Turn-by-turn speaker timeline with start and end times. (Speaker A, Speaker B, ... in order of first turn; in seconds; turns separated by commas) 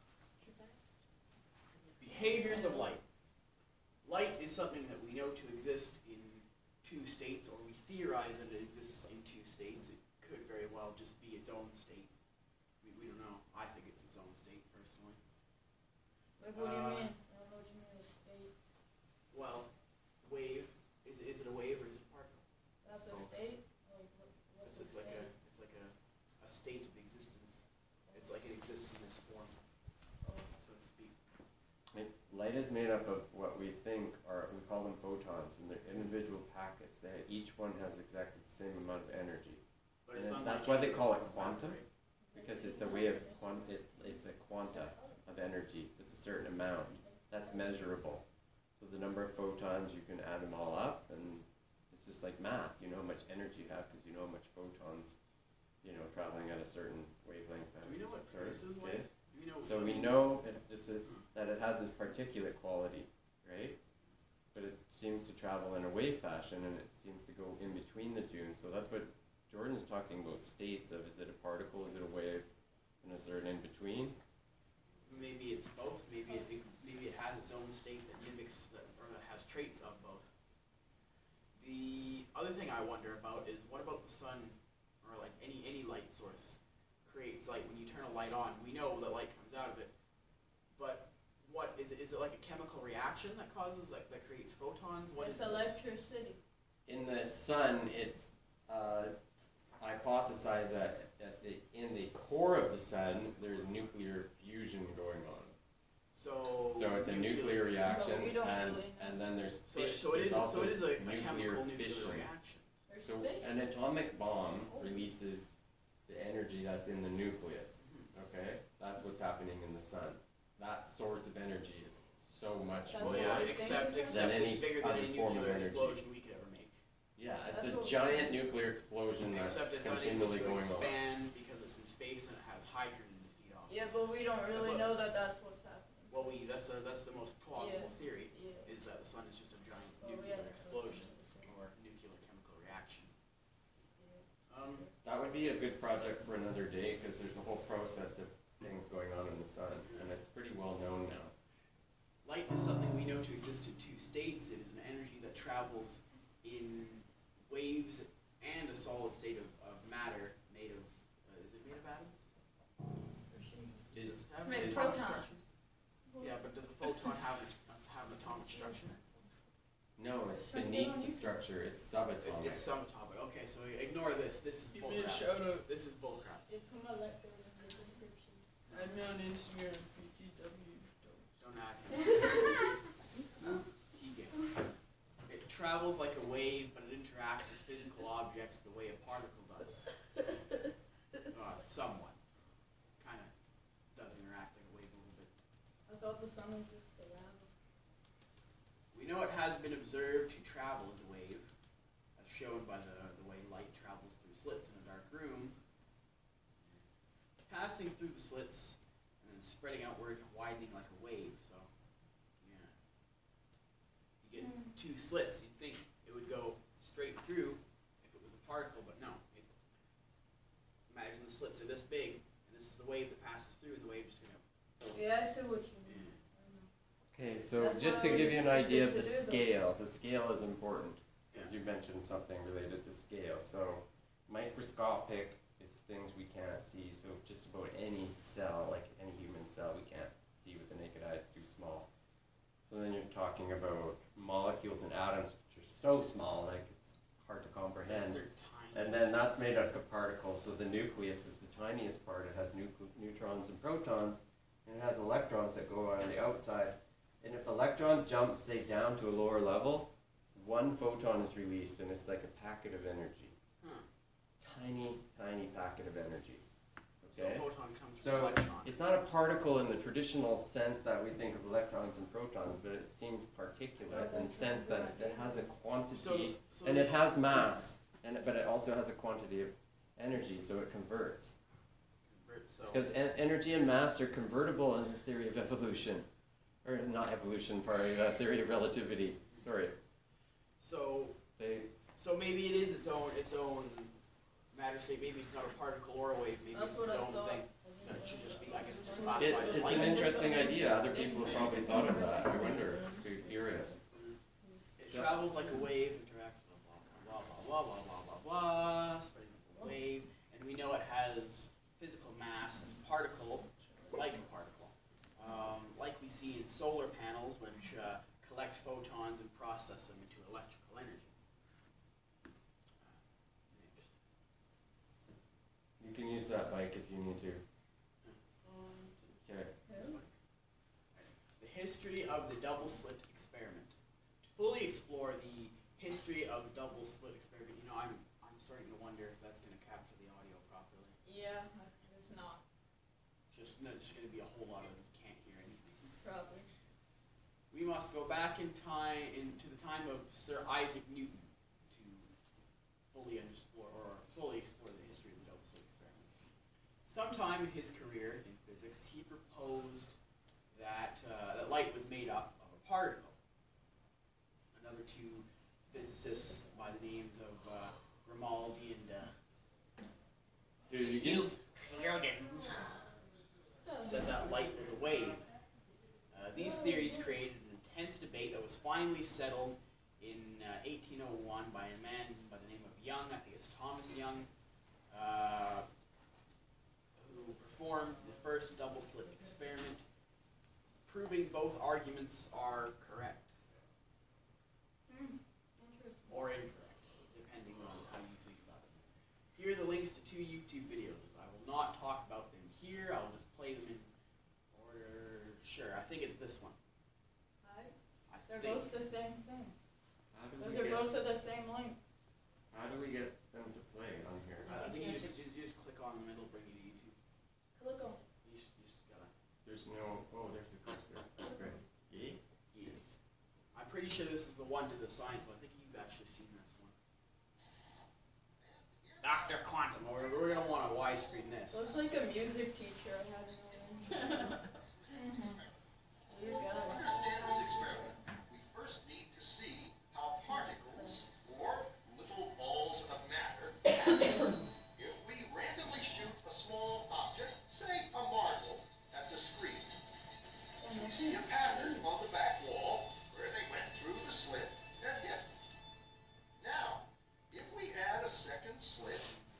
Speaker A: 0.4-0.8, Speaker A: 1.8-2.9, Speaker B: 2.0-3.0, Speaker B: 4.0-12.1, Speaker B: 12.8-15.2, Speaker A: 16.4-18.5, Speaker B: 16.6-17.1, Speaker B: 19.3-19.7, Speaker B: 20.2-22.4, Speaker A: 22.8-25.3, Speaker B: 24.6-29.6, Speaker A: 28.1-28.3, Speaker A: 30.2-30.5, Speaker B: 30.5-31.2, Speaker C: 31.9-39.6, Speaker B: 40.1-41.9, Speaker C: 40.1-41.8, Speaker A: 42.2-45.2, Speaker C: 42.3-48.2, Speaker A: 46.8-47.8, Speaker C: 48.8-55.2, Speaker C: 55.8-59.1, Speaker B: 57.8-60.2, Speaker C: 59.6-63.8, Speaker C: 64.5-72.5, Speaker C: 73.0-74.2, Speaker B: 75.0-80.3, Speaker B: 81.6-89.9, Speaker B: 90.7-95.8, Speaker A: 95.2-96.4, Speaker C: 96.9-99.2, Speaker C: 99.8-105.5, Speaker B: 103.0-103.9, Speaker B: 106.1-107.8, Speaker C: 106.7-112.3, Speaker A: 107.8-109.3, Speaker B: 109.7-112.7, Speaker A: 112.9-113.6, Speaker C: 113.0-115.5, Speaker A: 114.7-115.1, Speaker C: 116.1-126.0, Speaker B: 117.8-118.1, Speaker A: 122.9-124.3, Speaker B: 123.0-126.8, Speaker C: 127.2-131.0, Speaker A: 127.5-128.5, Speaker B: 129.2-133.9, Speaker A: 133.7-136.3, Speaker B: 134.5-134.9, Speaker B: 136.1-143.1, Speaker A: 137.6-138.7, Speaker A: 140.0-141.5, Speaker A: 143.8-144.9, Speaker B: 144.5-144.9, Speaker C: 145.0-151.3, Speaker B: 149.8-150.1, Speaker B: 152.2-162.2, Speaker A: 163.3-163.8, Speaker B: 163.9-165.4, Speaker C: 163.9-165.0, Speaker A: 164.4-165.3, Speaker A: 166.1-166.4, Speaker B: 166.2-169.0, Speaker C: 170.0-172.7, Speaker A: 170.3-171.3, Speaker B: 172.2-176.5, Speaker D: 174.7-175.7, Speaker A: 176.5-178.4, Speaker B: 178.7-179.0, Speaker D: 178.7-181.4, Speaker B: 181.4-182.7, Speaker A: 181.9-183.6, Speaker B: 183.4-184.5, Speaker B: 185.3-189.9, Speaker B: 191.3-192.2, Speaker B: 193.0-193.3, Speaker B: 193.9-195.3, Speaker A: 195.9-197.6, Speaker B: 198.9-201.5, Speaker B: 202.2-205.6, Speaker B: 207.4-211.7, Speaker B: 212.4-212.8, Speaker B: 214.2-219.6, Speaker A: 214.4-214.7, Speaker B: 220.9-225.0, Speaker A: 224.9-226.7, Speaker B: 225.9-226.2, Speaker C: 227.1-241.9, Speaker A: 227.6-229.5, Speaker C: 242.7-248.2, Speaker B: 247.9-249.0, Speaker C: 248.7-263.4, Speaker B: 263.6-263.9, Speaker C: 264.4-266.4, Speaker C: 267.0-281.4, Speaker B: 267.1-268.8, Speaker A: 273.9-275.5, Speaker B: 275.9-277.6, Speaker B: 282.1-282.9, Speaker C: 282.6-286.1, Speaker C: 286.6-289.8, Speaker B: 290.6-291.2, Speaker C: 291.4-291.7, Speaker B: 291.9-294.0, Speaker B: 294.5-300.2, Speaker A: 296.5-302.5, Speaker D: 298.6-300.5, Speaker C: 299.2-303.8, Speaker D: 301.3-303.8, Speaker B: 303.9-304.2, Speaker B: 304.8-321.1, Speaker C: 304.9-305.2, Speaker D: 313.7-314.1, Speaker B: 322.8-324.0, Speaker C: 325.8-327.4, Speaker D: 328.4-329.0, Speaker C: 329.2-329.5, Speaker A: 329.7-330.0, Speaker B: 329.7-330.2, Speaker B: 330.9-341.0, Speaker A: 341.0-342.4, Speaker B: 343.3-346.0, Speaker A: 346.0-346.5, Speaker B: 347.5-352.1, Speaker B: 352.9-356.2, Speaker B: 356.9-360.0, Speaker B: 360.5-363.2, Speaker B: 364.5-369.1, Speaker C: 370.7-371.4, Speaker B: 370.7-372.9, Speaker A: 373.6-374.3, Speaker B: 373.8-375.3, Speaker B: 376.1-384.3, Speaker A: 376.4-377.1, Speaker B: 384.9-385.7, Speaker B: 387.0-389.8, Speaker B: 390.9-393.4, Speaker A: 394.9-396.4, Speaker B: 396.1-403.9, Speaker B: 404.5-406.6, Speaker A: 407.4-407.7, Speaker B: 408.1-408.7, Speaker A: 408.3-409.6, Speaker C: 410.1-410.9, Speaker A: 410.4-411.8, Speaker C: 412.5-414.6, Speaker A: 414.4-415.1, Speaker B: 414.4-417.0, Speaker A: 417.6-418.1, Speaker B: 418.2-419.1, Speaker C: 419.4-422.2, Speaker A: 421.2-421.6, Speaker B: 422.5-422.9, Speaker B: 423.5-426.8, Speaker E: 428.4-432.5, Speaker B: 429.0-431.7, Speaker A: 431.5-435.4, Speaker E: 433.3-435.6, Speaker A: 436.1-438.0, Speaker E: 436.2-443.9, Speaker A: 440.3-441.1, Speaker A: 443.9-444.3, Speaker E: 444.7-449.8, Speaker A: 450.6-451.9, Speaker E: 450.6-455.3, Speaker E: 456.4-459.1